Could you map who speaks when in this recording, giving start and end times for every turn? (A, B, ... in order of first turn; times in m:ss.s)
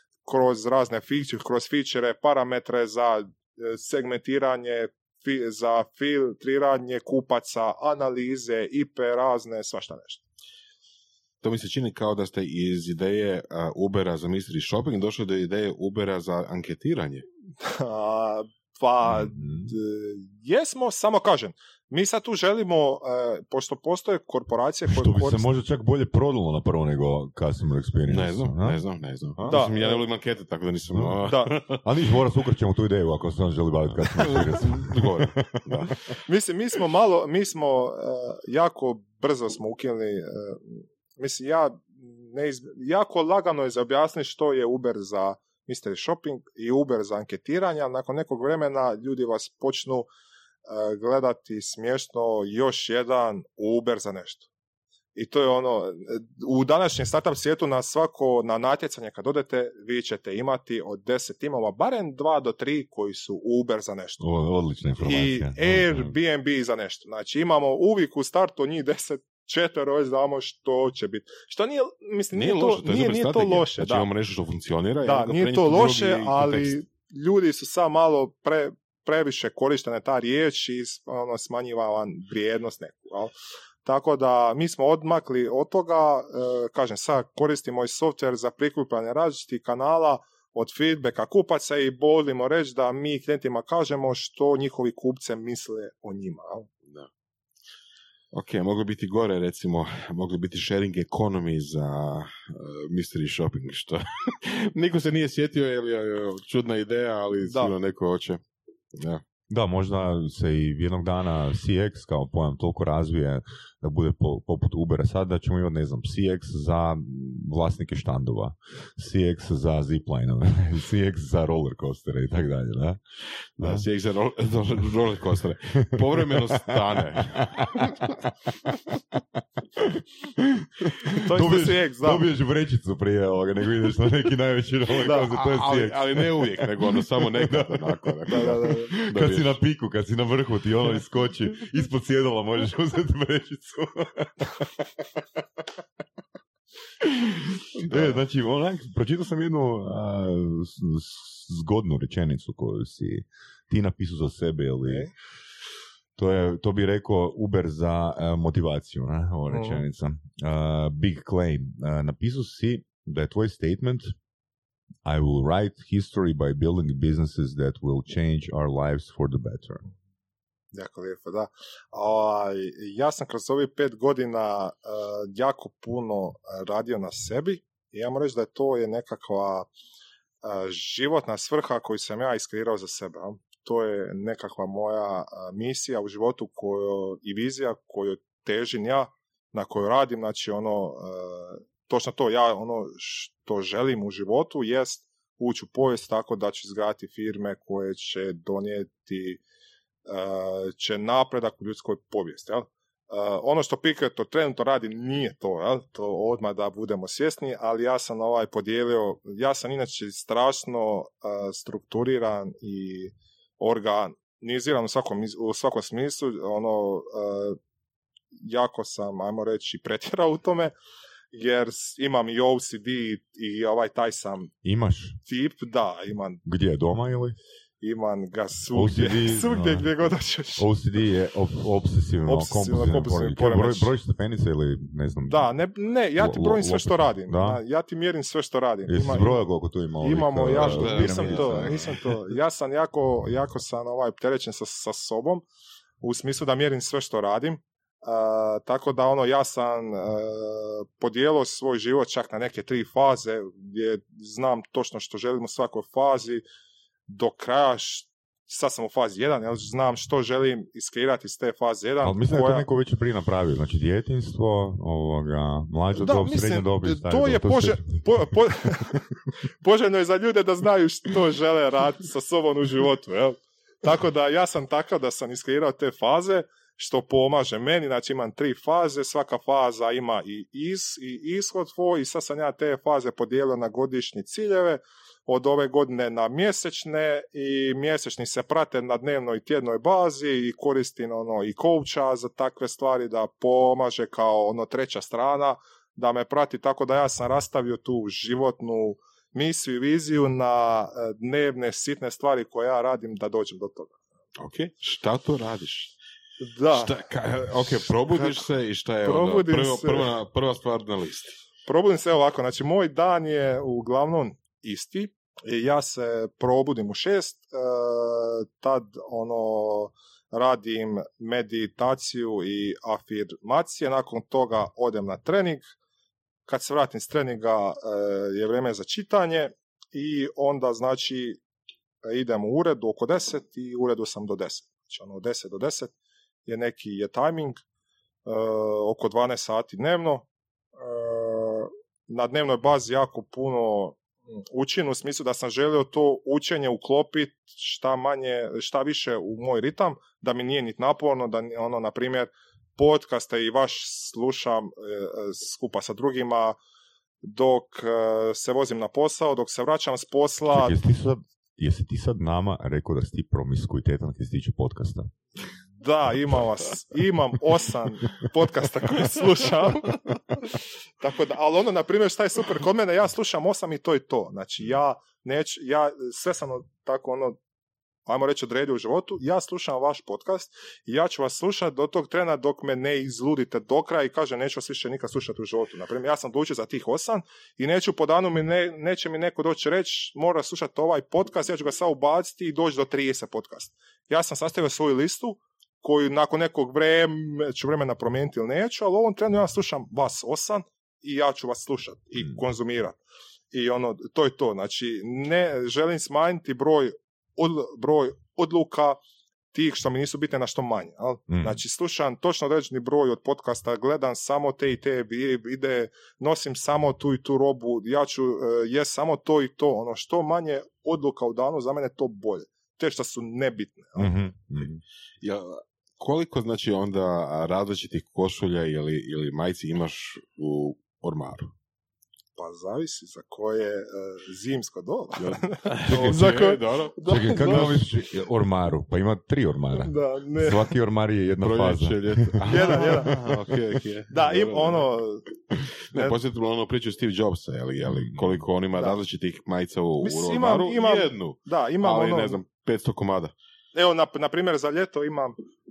0:00.2-0:10.2 A
0:11.4-0:17.2 B
0:17.6-0:25.5 A
0:19.0-0:19.7 C
0:24.9-0:28.8 C
0:28.1-0:31.8 B
0:29.4-0:29.6 C
0:29.5-0:30.0 A
0:30.9-0:36.0 C
0:31.2-0:31.6 A
0:34.1-0:36.1 B
0:36.2-0:50.1 A
0:50.6-0:54.5 A
0:55.1-1:04.2 A
1:04.2-1:06.1 C
1:05.0-1:14.1 A
1:12.3-1:16.8 B
1:15.0-1:36.7 A
1:38.3-1:48.4 B
1:48.9-1:49.2 B
1:49.5-2:03.0 C
2:03.6-2:07.8 B
2:03.6-2:03.9 C
2:06.0-2:08.1 C
2:10.4-2:25.2 C
2:11.2-2:12.2 A
2:15.0-2:19.6 B
2:18.3-2:19.0 A
2:27.0-2:35.1 C
2:27.9-2:28.2 A
2:34.8-2:35.1 A
2:36.2-2:44.1 C
2:39.5-2:39.8 A
2:45.0-2:49.8 C
2:50.7-2:59.7 A
3:00.4-3:19.4 A
3:20.0-3:37.6 A
3:38.3-3:40.7 A
3:41.3-3:44.5 A
3:44.6-3:45.2 C
3:45.2-3:46.4 A
3:46.4-3:47.4 C
3:47.8-3:50.7 A
3:48.7-3:49.9 C
3:50.6-3:55.5 C
3:52.2-3:53.9 A
3:55.3-3:59.4 A
3:56.2-3:57.6 C
3:58.9-4:02.0 C
4:00.0-4:05.4 A
4:00.5-4:01.9 B
4:06.0-4:16.4 A
4:17.1-4:22.6 A
4:22.0-4:28.3 C
4:25.9-5:04.0 A
5:04.4-5:05.9 B
5:06.4-5:06.9 A
5:06.7-5:11.4 B
5:08.1-5:08.4 A
5:09.0-5:10.1 A
5:11.6-5:25.6 A
5:26.5-5:31.4 A
5:32.0-5:35.9 A
5:36.4-5:37.6 A
5:38.2-5:40.2 A
5:40.8-5:56.6 A
5:57.2-6:00.8 A
6:00.5-6:05.1 C
6:05.7-6:17.4 A
6:18.0-6:43.0 A
6:43.5-6:49.0 A
6:49.5-7:04.2 A
6:51.3-6:51.6 C
7:04.0-7:04.8 C
7:05.2-7:11.5 B
7:12.4-7:17.8 A
7:15.2-7:17.9 B
7:15.9-7:16.3 C
7:17.0-7:23.5 C
7:19.8-7:20.7 A
7:21.4-7:24.9 B
7:22.4-7:23.2 A
7:24.1-7:25.3 A
7:25.7-7:33.3 B
7:27.8-7:28.4 C
7:30.0-7:32.4 A
7:33.7-7:35.4 A